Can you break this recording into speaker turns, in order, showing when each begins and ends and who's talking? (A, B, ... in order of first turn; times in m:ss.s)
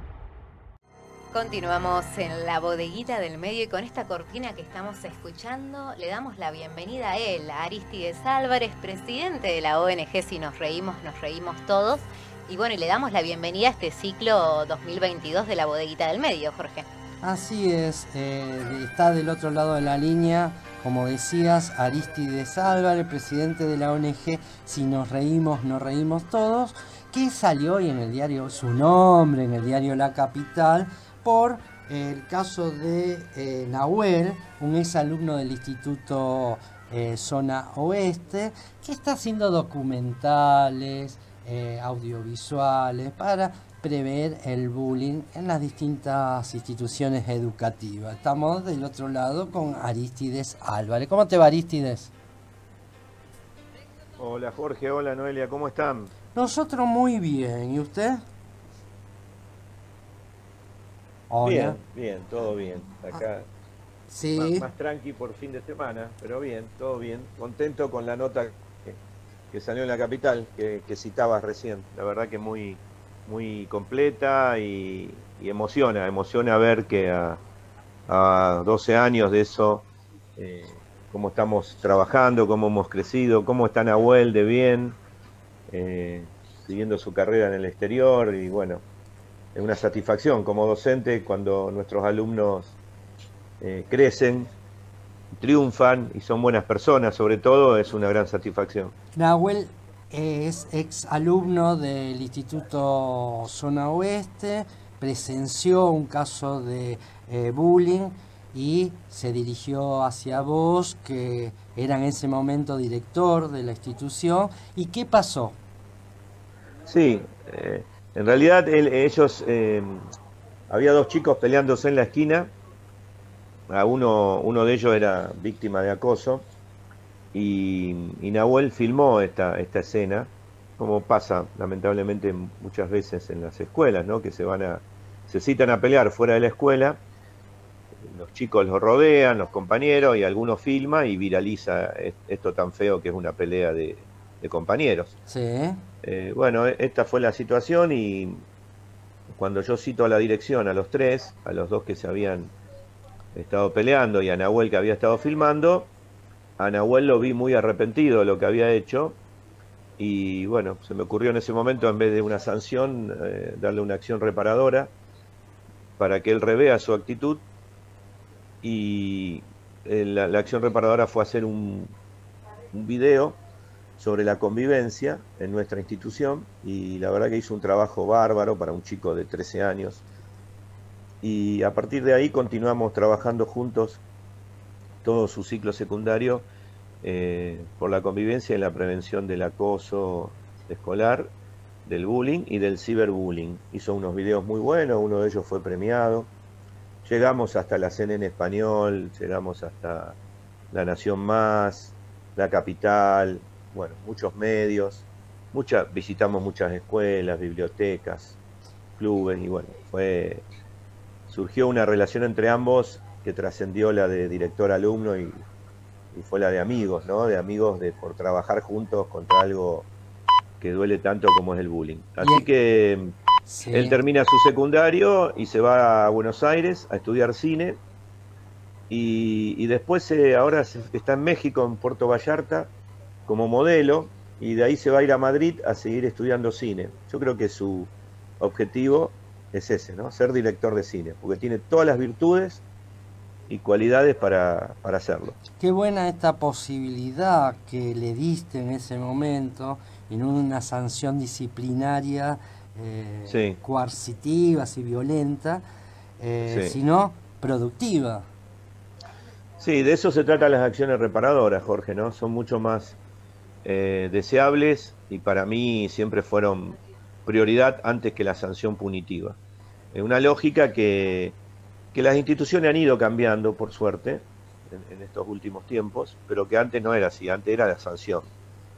0:01.3-0:16.9 A
0:17.2-0:52.1 B
0:54.2-0:56.1 C
0:56.4-0:58.2 B
1:01.3-1:01.8 B
1:01.4-1:03.5 C
1:04.1-1:04.7 B
1:04.4-1:09.0 C
1:09.5-1:17.4 C
1:18.1-1:25.0 C
1:25.7-1:28.8 C
1:29.6-1:32.8 C
1:33.6-1:34.5 C
1:35.3-1:38.9 C
1:39.2-1:55.6 B
1:56.9-2:00.1 C
2:00.7-2:02.5 C
2:03.7-2:06.5 C
2:07.3-2:17.0 C
2:18.0-2:25.1 C
2:25.3-2:25.8 B
2:26.0-2:28.4 C
2:29.3-2:32.5 C
2:33.3-2:35.9 C
2:36.6-2:39.2 C
2:40.0-2:44.9 C
2:46.0-2:47.4 C
2:48.6-2:52.0 C
2:52.7-2:53.4 C
2:54.0-3:00.0 C
3:01.2-3:04.0 C
3:05.0-3:06.5 C
3:07.0-3:11.3 C
3:11.8-3:16.3 C
3:17.0-3:20.2 C
3:20.7-3:28.4 C
3:29.0-3:30.5 C
3:31.3-3:35.4 C
3:36.1-3:39.9 C
3:40.6-3:43.2 C
3:42.2-3:42.5 B
3:43.5-3:44.0 B
3:43.7-3:47.8 C
3:48.9-3:52.7 C
3:53.3-4:02.6 C
4:03.5-4:05.4 C
4:05.6-4:15.6 B
4:13.3-4:13.6 C
4:16.2-4:18.3 B
4:16.4-4:16.8 C
4:19.6-4:23.0 C
4:23.6-4:29.4 C
4:29.9-4:31.4 C
4:31.9-4:38.3 C